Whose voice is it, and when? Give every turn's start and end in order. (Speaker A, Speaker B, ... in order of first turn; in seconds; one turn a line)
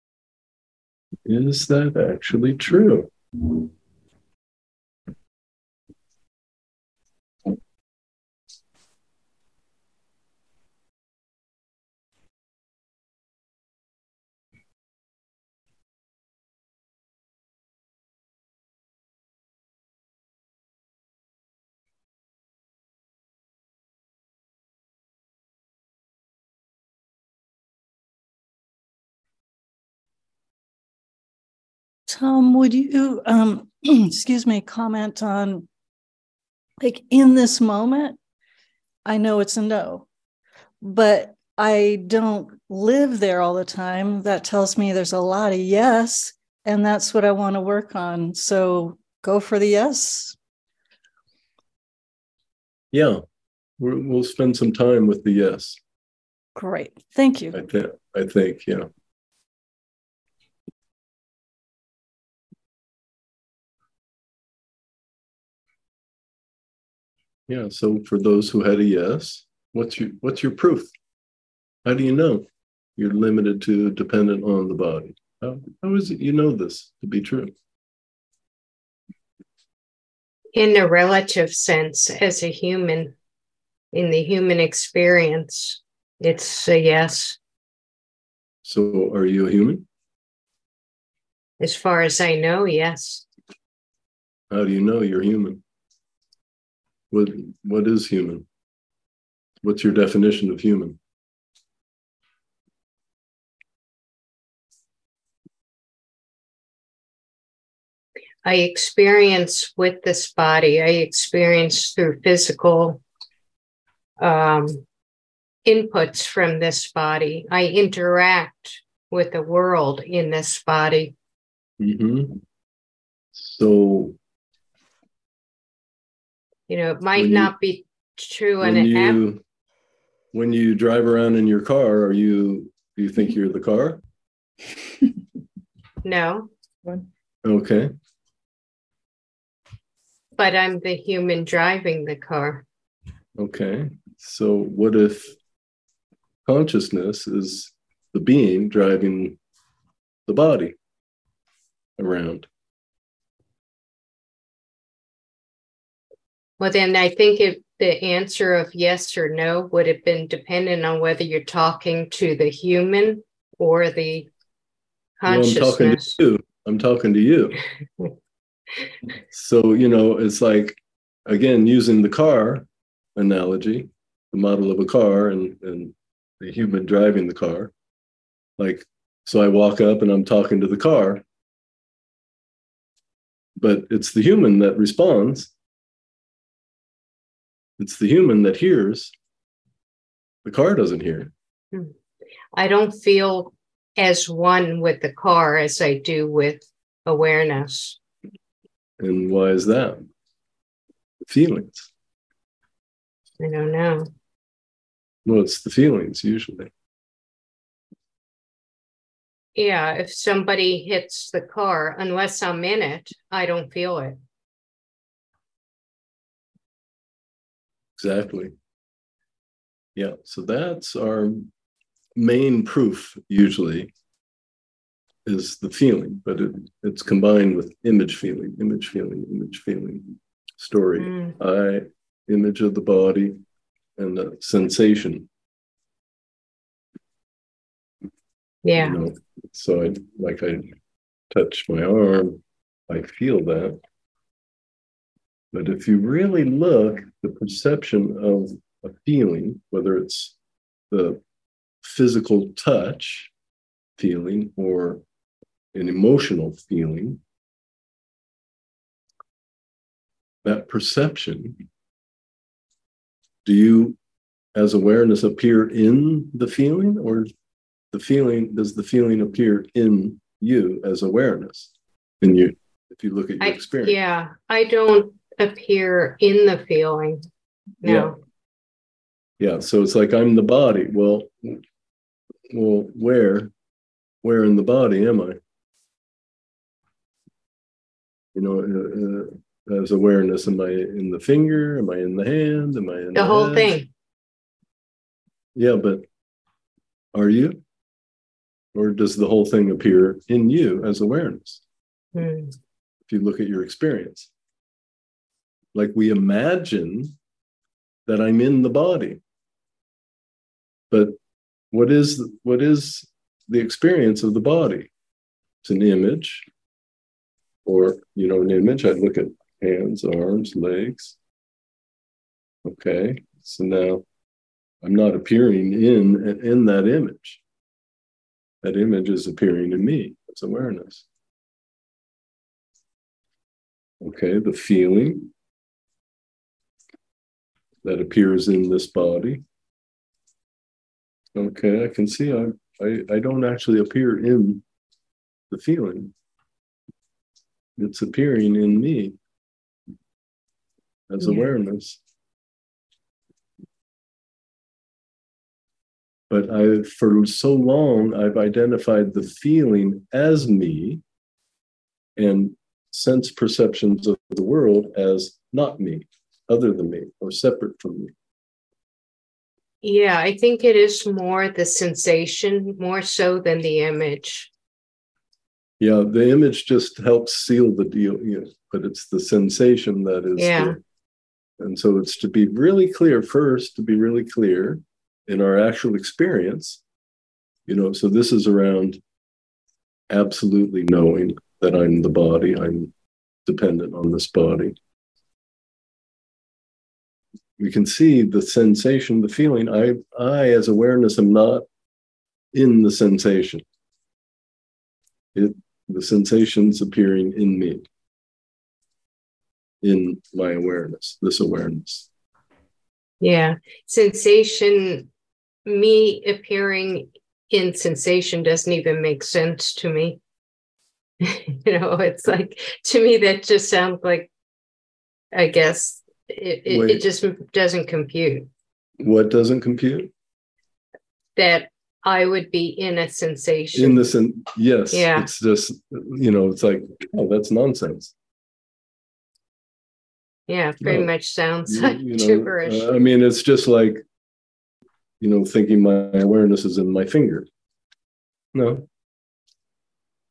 Speaker A: 1.2-3.1
Speaker B: 32.1-35.7
Speaker B: 36.8-38.2
Speaker B: 39.0-40.0
Speaker B: 40.8-50.4
Speaker A: 52.9-53.2
Speaker A: 53.8-55.8
Speaker B: 56.5-57.5
Speaker A: 57.5-58.9
Speaker A: 67.5-70.9
Speaker A: 71.8-72.5
Speaker A: 73.0-77.5
Speaker C: 80.5-83.1
Speaker C: 83.9-87.4
Speaker A: 88.6-89.8
Speaker C: 91.6-93.2
Speaker A: 94.5-95.6
Speaker A: 97.1-98.5
Speaker A: 99.6-101.0
Speaker C: 108.4-113.0
Speaker C: 114.2-114.8
Speaker C: 115.6-121.1
Speaker A: 121.8-122.4
Speaker A: 123.3-124.2
Speaker C: 126.7-129.2
Speaker A: 127.1-127.5
Speaker A: 128.6-129.4
Speaker A: 130.3-134.0
Speaker C: 136.0-136.5
Speaker A: 137.4-137.9
Speaker C: 140.4-142.6
Speaker A: 143.4-145.4
Speaker A: 146.4-149.4
Speaker A: 150.2-150.8
Speaker A: 152.0-152.5
Speaker C: 156.6-164.3
Speaker C: 165.2-166.1
Speaker A: 165.2-167.6
Speaker A: 169.3-177.7
Speaker A: 178.6-181.2
Speaker A: 183.6-185.5
Speaker A: 187.8-189.1
Speaker A: 190.4-191.3
Speaker C: 192.5-198.0
Speaker A: 199.0-200.1
Speaker A: 201.2-201.9
Speaker C: 203.4-204.1
Speaker A: 205.2-206.7
Speaker C: 209.6-214.2
Speaker A: 217.9-218.5
Speaker A: 219.9-221.5
Speaker A: 222.1-223.9
Speaker A: 225.2-233.4
Speaker C: 231.0-231.3
Speaker A: 234.0-235.3
Speaker C: 238.6-239.0
Speaker A: 238.8-240.7
Speaker A: 241.3-243.8
Speaker A: 245.5-250.3
Speaker A: 250.9-251.2
Speaker A: 251.8-253.3
Speaker A: 254.0-255.0
Speaker A: 255.7-257.2
Speaker A: 260.4-261.6
Speaker A: 263.4-264.0
Speaker A: 264.5-267.3
Speaker A: 267.9-274.0
Speaker C: 273.4-277.2
Speaker C: 277.8-278.2
Speaker A: 277.8-278.2
Speaker A: 279.4-281.6
Speaker A: 282.5-283.5
Speaker A: 284.2-285.4
Speaker A: 288.3-293.8
Speaker C: 293.1-293.9
Speaker A: 295.5-296.0
Speaker A: 297.1-297.6
Speaker A: 298.7-301.6
Speaker C: 302.1-302.6
Speaker A: 303.1-304.3
Speaker A: 305.7-307.1
Speaker A: 308.1-309.2
Speaker A: 310.9-311.2
Speaker A: 311.7-314.9
Speaker A: 315.6-316.5
Speaker A: 317.6-321.1
Speaker A: 322.6-324.0
Speaker A: 324.8-327.4
Speaker A: 328.6-331.0
Speaker A: 334.0-335.3
Speaker A: 337.8-339.4
Speaker A: 341.3-344.6
Speaker A: 345.5-346.1
Speaker A: 347.8-349.2
Speaker A: 351.1-352.0
Speaker A: 356.3-361.0
Speaker A: 362.1-368.1
Speaker C: 369.8-374.5
Speaker A: 375.8-380.8
Speaker C: 380.4-380.8
Speaker A: 381.6-386.8
Speaker A: 387.7-389.0
Speaker A: 390.1-392.9
Speaker A: 393.4-394.8
Speaker A: 397.6-401.6
Speaker A: 402.5-403.6
Speaker A: 405.3-407.9
Speaker A: 409.8-412.1
Speaker C: 413.2-415.1
Speaker C: 415.6-420.2
Speaker C: 421.2-424.3
Speaker C: 425.3-428.5
Speaker A: 426.7-427.0
Speaker A: 429.0-430.1
Speaker C: 431.4-434.0
Speaker A: 433.7-438.1
Speaker C: 434.9-435.3
Speaker C: 440.5-442.9
Speaker A: 440.8-441.1
Speaker A: 441.7-444.0
Speaker A: 445.2-447.5
Speaker A: 448.5-448.9